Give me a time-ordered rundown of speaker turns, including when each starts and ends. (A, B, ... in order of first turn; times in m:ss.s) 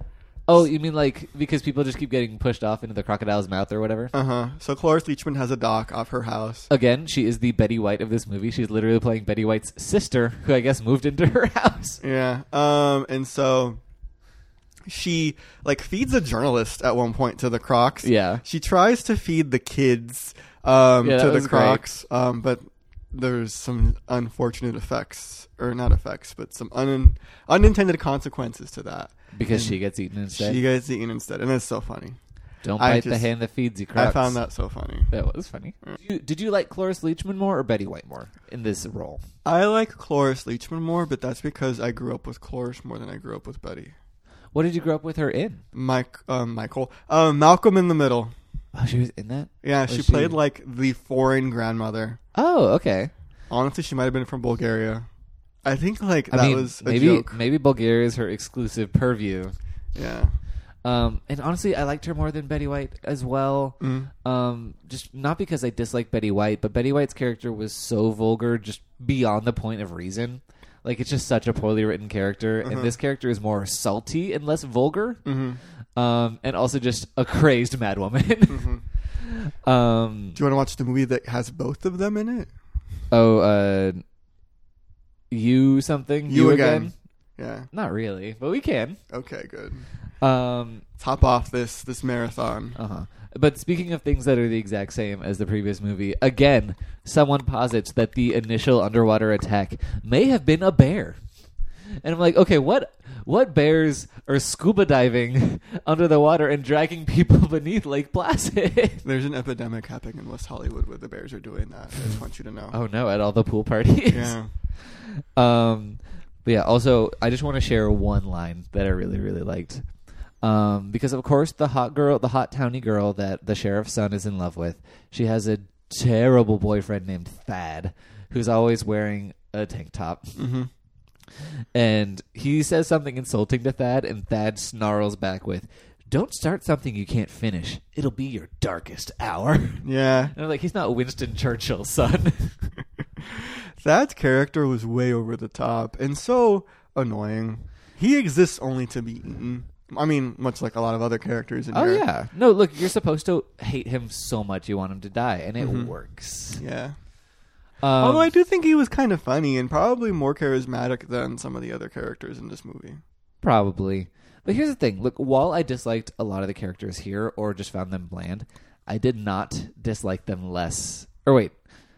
0:00.5-0:04.1 A
0:04.1-0:06.7 B
0:06.7-0:12.0 A
0:12.0-0:13.8 B
0:14.9-0:29.8 B
0:18.0-0:18.4 A
0:21.0-0:21.8 A
0:29.3-0:30.6 A
0:30.3-0:32.2 B
0:32.6-0:34.4 A
0:32.8-0:33.3 B
0:34.0-0:35.1 B
0:35.1-0:39.2 A
0:39.4-0:43.9 B
0:44.5-0:45.6 A
0:45.7-0:48.3 B
0:48.7-0:50.4 A
0:49.6-0:52.2 B
0:52.4-0:53.1 A
0:53.5-0:55.1 B
0:55.6-0:57.4 B
0:56.3-0:59.6 A
0:59.9-1:00.4 B
1:00.8-1:15.2 A
1:03.8-1:04.1 B
1:12.6-1:12.9 B
1:15.2-1:15.6 B
1:16.0-1:20.4 A
1:18.5-1:18.8 B
1:20.4-1:22.5 B
1:23.1-1:24.0 A
1:25.3-1:26.9 A
1:26.3-1:27.7 B
1:27.7-1:29.0 A
1:29.1-1:29.9 B
1:30.2-1:30.8 A
1:31.0-1:32.8 B
1:32.8-1:41.2 A
1:42.0-1:49.0 A
1:49.0-1:52.8 B
1:52.7-1:59.9 A
1:54.1-1:54.5 B
2:00.4-2:10.3 A
2:10.4-2:10.7 B
2:11.8-2:22.6 A
2:19.8-2:20.3 B
2:23.2-2:32.0 B
2:31.7-2:36.6 A
2:35.6-2:35.9 B
2:36.6-2:37.0 B
2:37.8-2:38.3 A
2:38.0-2:43.0 B
2:43.4-2:51.6 A